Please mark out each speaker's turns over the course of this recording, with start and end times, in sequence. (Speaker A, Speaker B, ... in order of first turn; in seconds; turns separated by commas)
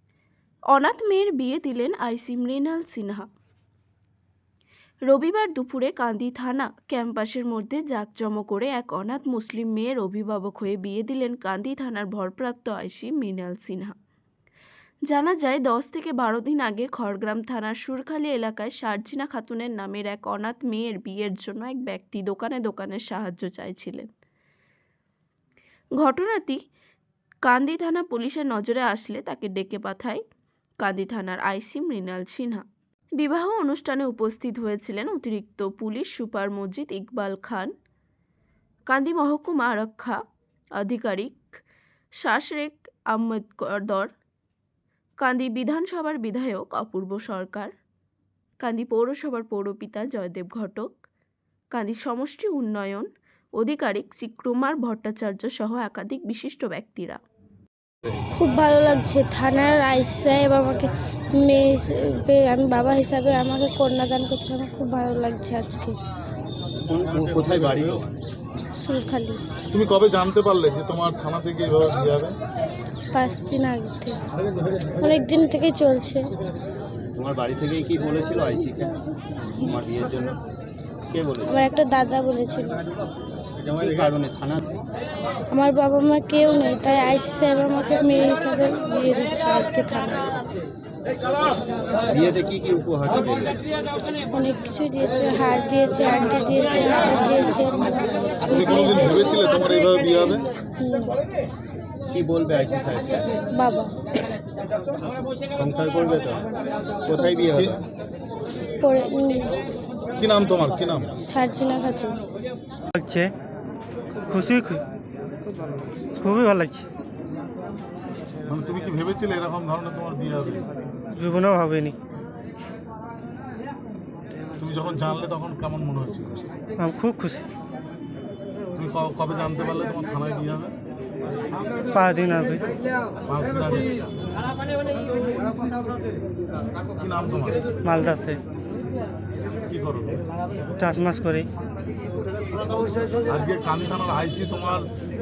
Speaker A: 0.7-3.2, Speaker A: 5.1-13.9, Speaker A: 15.1-24.1, Speaker A: 26.0-26.6, Speaker A: 27.4-30.2, Speaker A: 30.8-32.6, Speaker A: 33.2-37.7, Speaker A: 38.9-40.2, Speaker A: 40.8-41.4, Speaker A: 42.2-44.1, Speaker A: 45.2-47.7, Speaker A: 48.6-51.0, Speaker A: 51.7-57.2, Speaker B: 58.3-66.0, Speaker C: 66.9-68.0, Speaker B: 68.8-69.4, Speaker D: 69.7-72.4, Speaker B: 73.1-74.2, Speaker B: 75.0-76.3, Speaker C: 77.2-78.9, Speaker C: 79.6-80.3, Speaker C: 81.1-81.5, Speaker B: 81.5-82.8, Speaker C: 83.6-84.6, Speaker B: 85.5-90.3, Speaker C: 92.1-93.6, Speaker B: 94.3-99.3, Speaker D: 98.5-100.4, Speaker B: 100.8-101.2, Speaker C: 102.1-103.3, Speaker B: 103.5-103.9, Speaker C: 105.5-106.4, Speaker C: 107.0-107.8, Speaker D: 107.5-107.8, Speaker B: 108.8-109.6, Speaker D: 110.2-111.1, Speaker B: 111.2-112.2, Speaker E: 112.9-113.3, Speaker E: 114.3-114.8, Speaker E: 116.2-116.9, Speaker D: 118.5-120.7, Speaker E: 121.1-122.0, Speaker D: 124.6-126.5, Speaker E: 126.8-127.4, Speaker D: 128.7-130.7, Speaker E: 131.9-132.7, Speaker D: 133.2-133.9, Speaker D: 137.0-137.7, Speaker E: 137.8-138.4, Speaker D: 139.7-140.2, Speaker E: 140.8-141.5, Speaker D: 143.2-144.9